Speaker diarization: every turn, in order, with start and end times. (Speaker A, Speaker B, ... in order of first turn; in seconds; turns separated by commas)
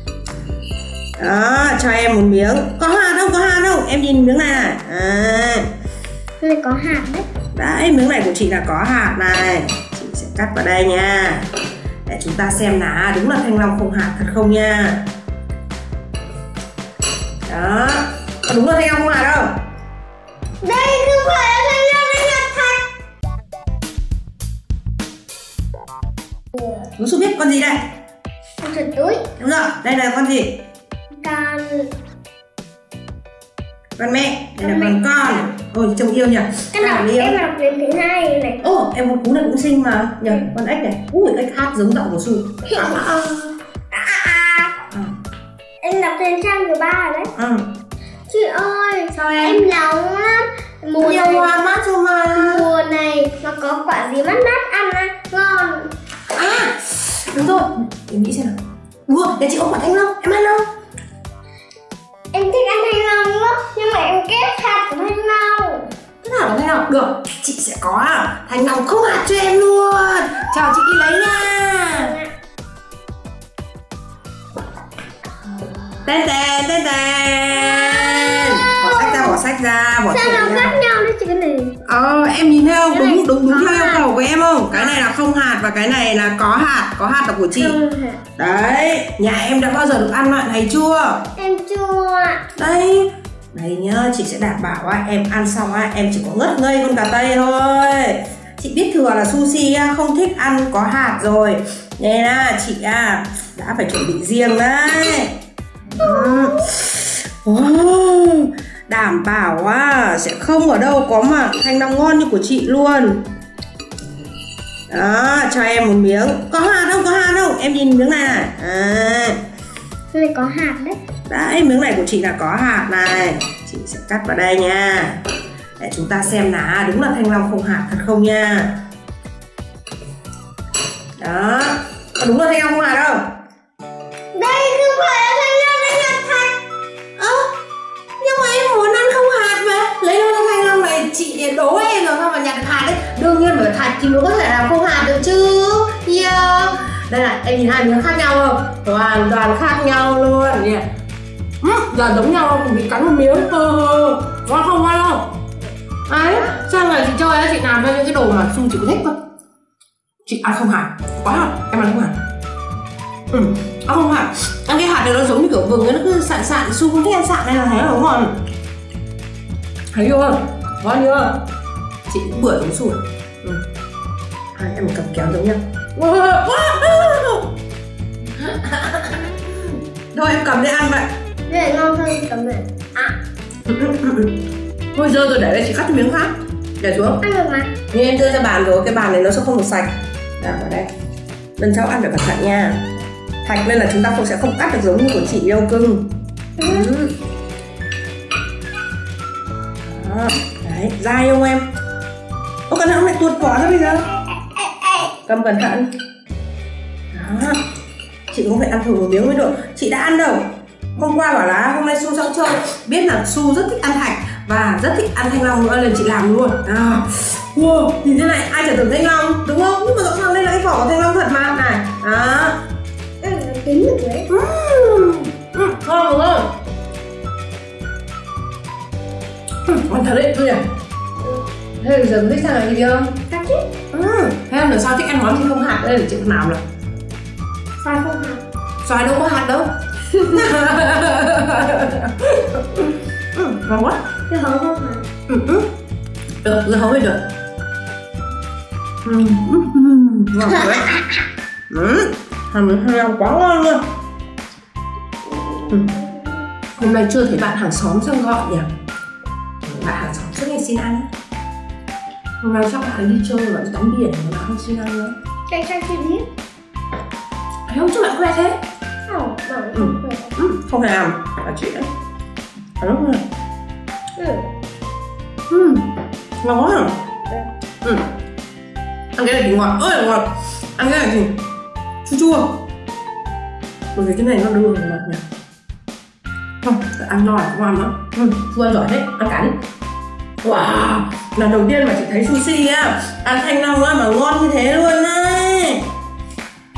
Speaker A: 1.2-5.7, Speaker B: 6.4-7.3, Speaker A: 7.5-11.4, Speaker A: 12.1-15.0, Speaker A: 17.5-19.5, Speaker B: 20.6-22.9, Speaker A: 27.0-27.9, Speaker B: 28.6-29.3, Speaker A: 29.4-30.6, Speaker B: 31.2-31.9, Speaker A: 34.0-37.4, Speaker B: 34.6-35.0, Speaker B: 36.8-38.7, Speaker A: 38.6-43.5, Speaker B: 42.7-43.1, Speaker B: 43.9-44.9, Speaker B: 45.8-47.3, Speaker A: 47.4-47.7, Speaker B: 48.3-51.6, Speaker A: 49.1-49.6, Speaker A: 51.0-52.7, Speaker B: 52.3-55.9, Speaker A: 56.3-60.7, Speaker B: 62.3-65.9, Speaker A: 66.2-72.1, Speaker B: 71.9-72.3, Speaker A: 76.0-80.8, Speaker B: 77.7-79.4, Speaker B: 80.1-81.8, Speaker A: 81.8-87.8, Speaker B: 82.9-84.1, Speaker B: 84.7-85.0, Speaker B: 87.5-88.2, Speaker A: 88.4-91.2, Speaker B: 91.4-92.5, Speaker A: 92.6-105.3, Speaker A: 106.0-113.2, Speaker B: 106.0-106.6, Speaker A: 114.9-119.4, Speaker B: 120.1-121.0, Speaker A: 121.3-125.2, Speaker A: 125.8-128.7, Speaker A: 131.2-133.2, Speaker B: 134.3-136.6, Speaker A: 137.2-137.5, Speaker A: 138.2-150.9, Speaker A: 151.6-155.3, Speaker A: 156.1-159.2, Speaker A: 160.3-162.2, Speaker A: 163.3-168.4, Speaker A: 169.9-171.4, Speaker A: 172.1-173.6, Speaker A: 174.6-177.5, Speaker A: 178.4-181.1, Speaker B: 181.5-183.2, Speaker A: 183.7-184.4, Speaker A: 184.9-187.2, Speaker B: 187.2-187.7, Speaker A: 187.9-190.9, Speaker A: 191.6-192.8, Speaker A: 193.4-196.1, Speaker A: 196.6-197.1, Speaker B: 196.6-196.9, Speaker A: 199.8-201.6, Speaker A: 202.7-204.1, Speaker A: 205.2-205.9, Speaker A: 207.1-207.6, Speaker A: 208.3-222.6, Speaker B: 223.2-224.3, Speaker A: 224.3-226.5, Speaker A: 229.7-230.7, Speaker A: 231.8-233.2, Speaker B: 233.3-233.7, Speaker A: 233.9-236.6, Speaker B: 237.8-238.4, Speaker A: 238.8-244.1, Speaker B: 240.1-240.5, Speaker B: 244.3-245.1, Speaker A: 245.3-245.7, Speaker A: 246.4-247.2, Speaker A: 249.1-253.8, Speaker A: 255.7-255.9, Speaker A: 256.8-258.7, Speaker A: 259.6-261.1, Speaker A: 262.4-265.1, Speaker B: 265.5-266.3, Speaker A: 267.7-268.6, Speaker B: 269.1-270.3, Speaker A: 269.8-271.9, Speaker A: 272.8-273.2, Speaker B: 274.2-274.5, Speaker A: 275.5-275.9, Speaker A: 276.4-277.0, Speaker A: 277.8-278.1, Speaker A: 279.1-281.4, Speaker A: 282.1-282.6, Speaker A: 283.9-285.2, Speaker A: 286.6-289.6, Speaker A: 290.4-295.9